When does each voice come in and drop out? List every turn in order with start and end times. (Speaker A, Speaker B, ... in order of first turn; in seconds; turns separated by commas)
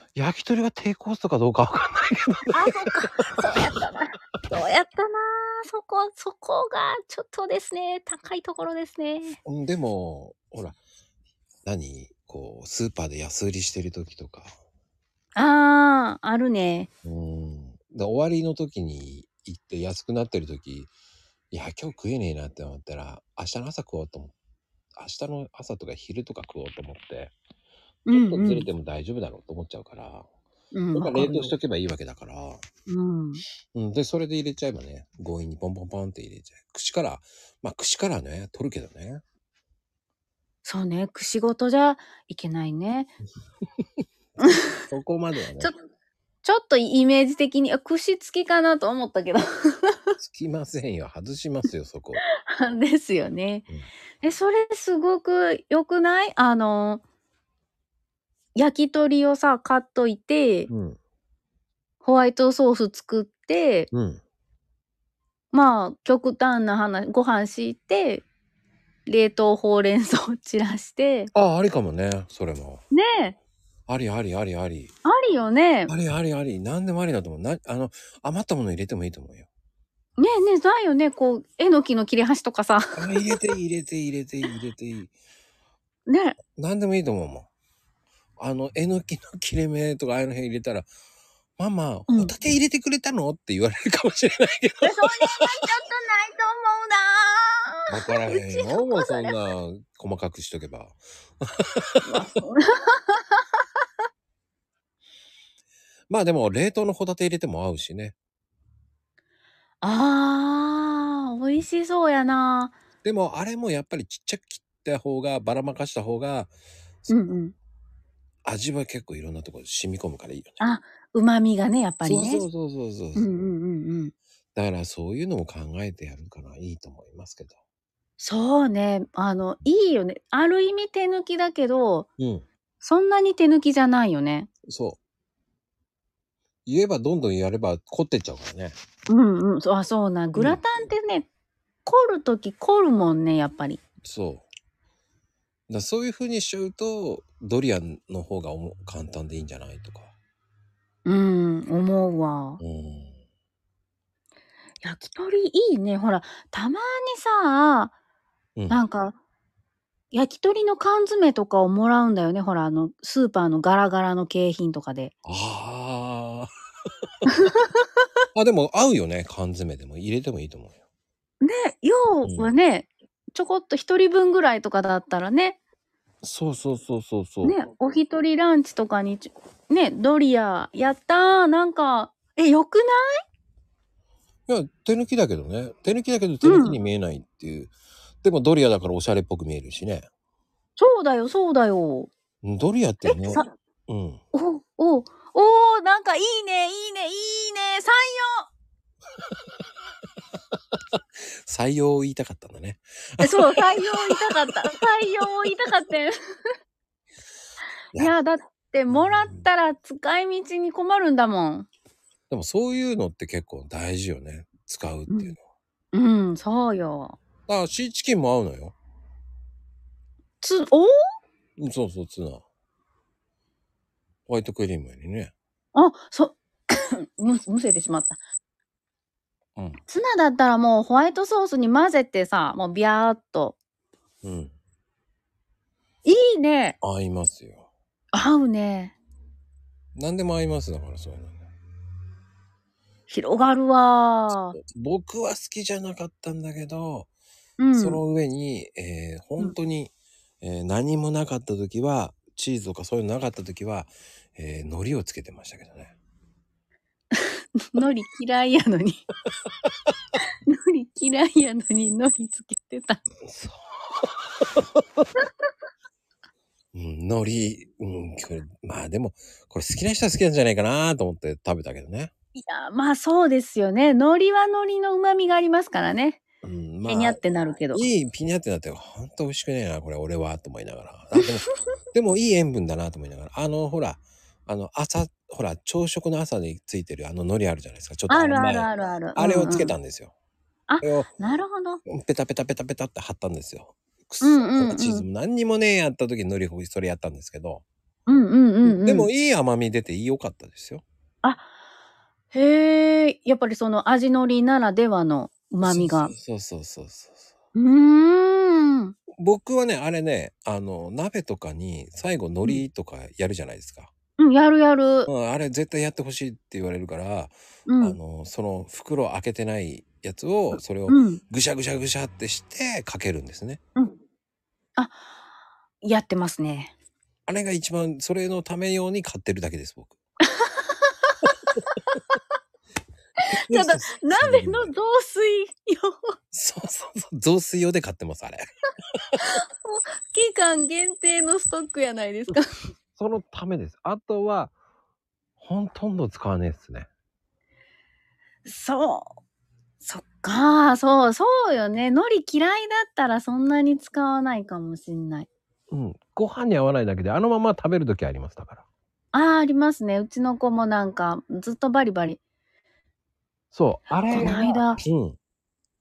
Speaker A: 0.1-2.9, Speaker B: 2.5-9.4, Speaker A: 9.4-10.8, Speaker A: 11.7-14.5, Speaker B: 15.4-16.9, Speaker A: 17.1-20.9, Speaker A: 21.5-24.3, Speaker A: 25.0-27.3, Speaker B: 28.1-28.7, Speaker A: 28.1-30.3, Speaker B: 30.7-31.5, Speaker A: 30.9-32.6, Speaker B: 32.9-33.4, Speaker A: 33.8-39.2, Speaker B: 40.6-43.1, Speaker B: 44.4-44.7, Speaker A: 44.5-45.7, Speaker B: 46.4-50.0, Speaker A: 50.2-52.2, Speaker B: 52.5-53.7, Speaker B: 54.2-57.0, Speaker B: 58.5-60.7, Speaker A: 60.7-61.0, Speaker B: 62.0-63.9, Speaker A: 63.9-64.2, Speaker B: 65.5-68.2, Speaker B: 69.1-71.3, Speaker A: 71.3-72.8, Speaker B: 72.9-73.4, Speaker A: 73.9-74.9, Speaker B: 75.0-75.9, Speaker A: 75.9-79.5, Speaker B: 80.2-83.2, Speaker A: 83.0-85.1, Speaker B: 86.1-86.4, Speaker A: 86.6-87.5, Speaker A: 88.4-90.9, Speaker A: 91.6-95.3, Speaker B: 94.8-99.3, Speaker A: 97.9-102.2, Speaker B: 102.1-103.4, Speaker A: 106.1-108.2, Speaker B: 109.8-112.8, Speaker A: 113.0-116.5, Speaker A: 117.1-117.4, Speaker B: 117.1-117.5, Speaker A: 118.5-120.6, Speaker B: 120.6-122.5, Speaker A: 122.0-123.3, Speaker B: 123.2-124.1, Speaker A: 124.5-127.6, Speaker B: 128.2-132.1, Speaker A: 132.2-132.5, Speaker B: 132.8-134.5, Speaker A: 134.7-135.0, Speaker A: 136.7-138.8, Speaker B: 139.1-141.3, Speaker A: 140.3-140.6, Speaker B: 141.8-143.8, Speaker A: 144.0-144.5, Speaker A: 145.7-150.1, Speaker B: 151.1-152.6, Speaker A: 152.6-153.2, Speaker B: 154.8-157.9, Speaker B: 158.7-159.2, Speaker B: 160.1-165.1, Speaker A: 165.3-166.5, Speaker B: 167.3-167.9, Speaker A: 168.3-170.8, Speaker B: 171.4-175.6, Speaker A: 172.2-172.5, Speaker A: 176.2-177.6, Speaker B: 177.4-183.0, Speaker A: 184.5-190.1, Speaker B: 186.4-186.8, Speaker B: 190.8-192.1, Speaker A: 192.4-194.2, Speaker B: 193.1-193.5, Speaker B: 194.3-198.5, Speaker A: 201.5-204.3, Speaker B: 203.2-206.2, Speaker B: 207.9-211.7, Speaker A: 212.3-215.4, Speaker B: 215.1-215.4, Speaker B: 215.9-217.2, Speaker A: 217.5-218.8, Speaker B: 220.4-220.9, Speaker A: 221.6-222.4, Speaker A: 224.3-225.3, Speaker B: 225.7-228.2, Speaker B: 229.9-233.6, Speaker A: 234.2-234.5, Speaker B: 236.1-236.8, Speaker A: 236.8-237.7, Speaker B: 238.1-239.0, Speaker A: 239.9-241.4, Speaker B: 243.1-244.6, Speaker A: 244.3-247.1, Speaker B: 247.6-248.0, Speaker A: 247.8-256.0, Speaker B: 257.1-259.1, Speaker B: 260.5-263.0, Speaker A: 263.2-265.0, Speaker A: 266.7-272.1, Speaker B: 272.4-276.2, Speaker A: 276.4-290.1, Speaker B: 276.9-277.9, Speaker B: 288.1-289.7, Speaker B: 290.7-291.8, Speaker A: 290.8-291.1, Speaker A: 291.9-297.6, Speaker B: 294.2-295.1, Speaker B: 298.1-299.1, Speaker A: 298.6-300.8, Speaker B: 301.2-301.5, Speaker B: 302.3-306.1, Speaker A: 305.6-307.3, Speaker B: 307.6-308.9, Speaker A: 309.2-313.9, Speaker B: 314.2-315.1, Speaker A: 315.1-323.6, Speaker B: 317.7-318.0, Speaker B: 320.9-321.2, Speaker B: 324.8-325.1, Speaker B: 325.8-326.7, Speaker A: 327.3-330.0, Speaker B: 330.3-332.0, Speaker B: 333.3-336.1, Speaker A: 333.5-334.7, Speaker A: 336.3-338.5, Speaker B: 339.2-342.5, Speaker A: 343.0-344.5, Speaker A: 345.4-346.9, Speaker B: 348.4-349.1, Speaker B: 349.8-355.3, Speaker A: 355.7-358.6, Speaker B: 359.1-362.2, Speaker A: 363.5-365.2, Speaker B: 364.1-364.8